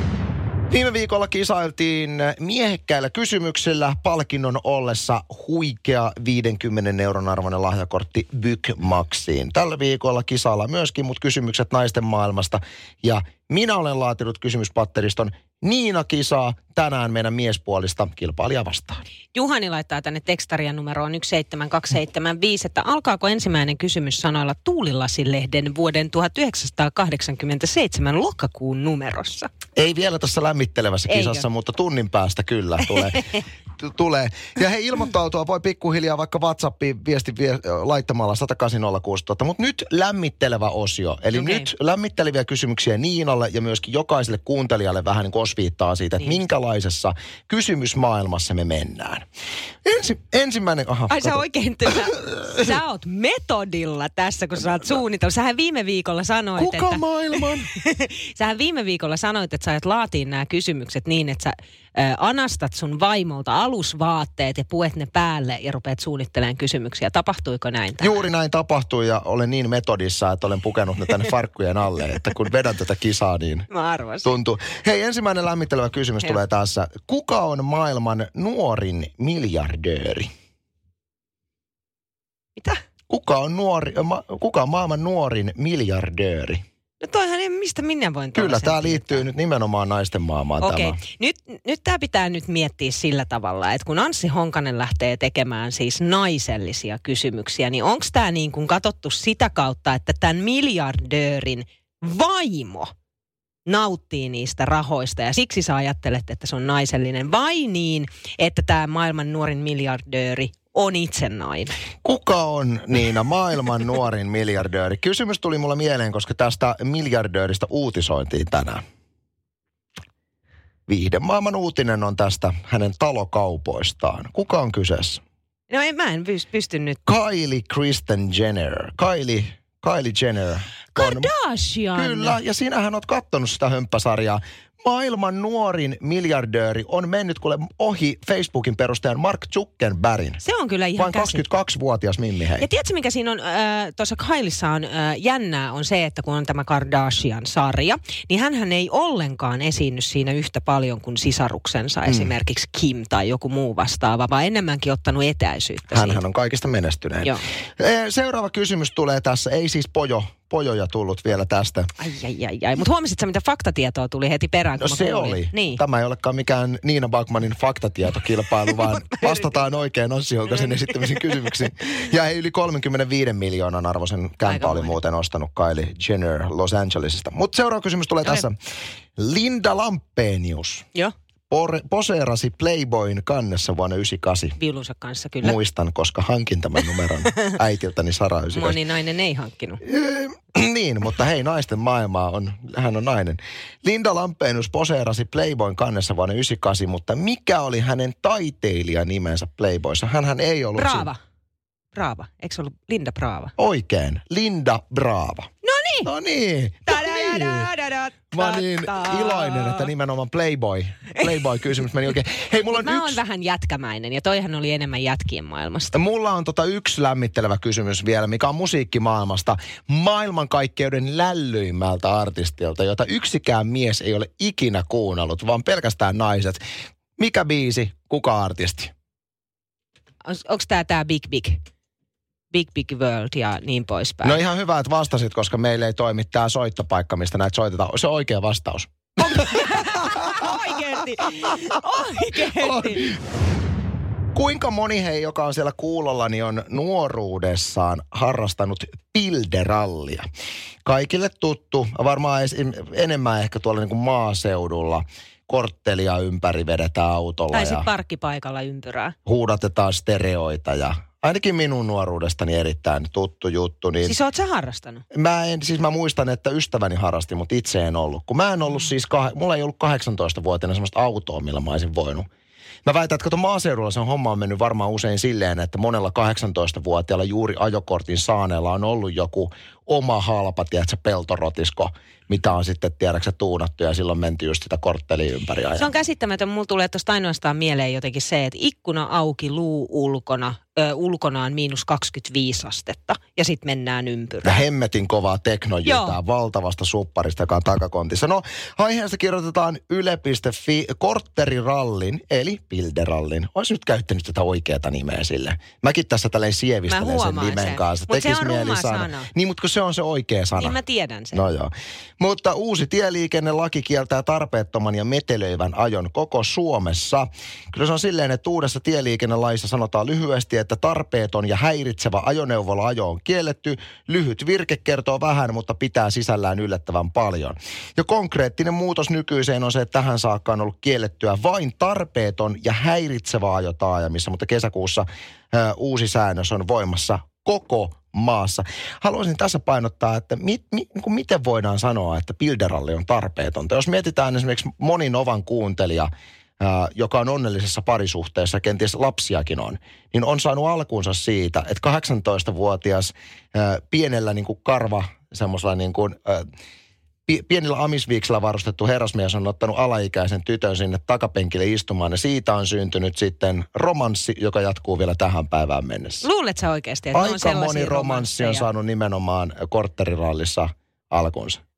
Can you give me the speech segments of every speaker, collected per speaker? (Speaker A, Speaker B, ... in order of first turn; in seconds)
Speaker A: 0.7-19.0, 29.8-33.2, 33.8-49.2, 49.8-52.8, 56.6-57.7, 68.0-73.7, 74.2-80.3, 83.1-86.6, 88.3-91.0, 112.0-118.8, 120.9-125.2, 127.0-131.3, 131.9-140.4, 141.0-142.7, 152.1-152.3, 155.9-161.9, 164.8-178.6, 179.2-180.9, 181.5-184.6, 185.4-188.8, 189.8-201.1, 203.6-205.5, 206.0-207.7, 208.3-213.2, 215.9-226.6, 227.2-228.9, 234.2-240.7, 241.2-243.2, 244.3-250.2, 250.8-257.9, 259.2-264.1, 265.1-272.3, 272.9-285.9, 294.4-310.8, 311.3-356.5, 357.3-366.2, 367.1-371.6
Speaker B: 19.4-29.5, 31.1-31.4, 32.9-33.4, 41.3-41.7, 51.1-68.2, 73.7-74.3, 82.6-82.8, 87.0-89.2, 90.6-102.9, 103.7-111.8, 125.7-127.0, 130.9-132.4, 140.4-141.4, 142.6-156.2, 162.0-165.8, 168.7-169.7, 170.6-171.3, 174.4-175.0, 184.6-185.6, 188.5-189.8, 200.8-201.2, 201.9-203.5, 205.6-206.1, 206.9-209.9, 212.7-215.9, 230.2-231.6, 232.5-234.4, 239.2-243.1, 257.5-259.1, 264.0-265.0, 285.8-294.6, 295.9-296.2, 306.9-309.3, 310.6-311.4, 366.2-368.6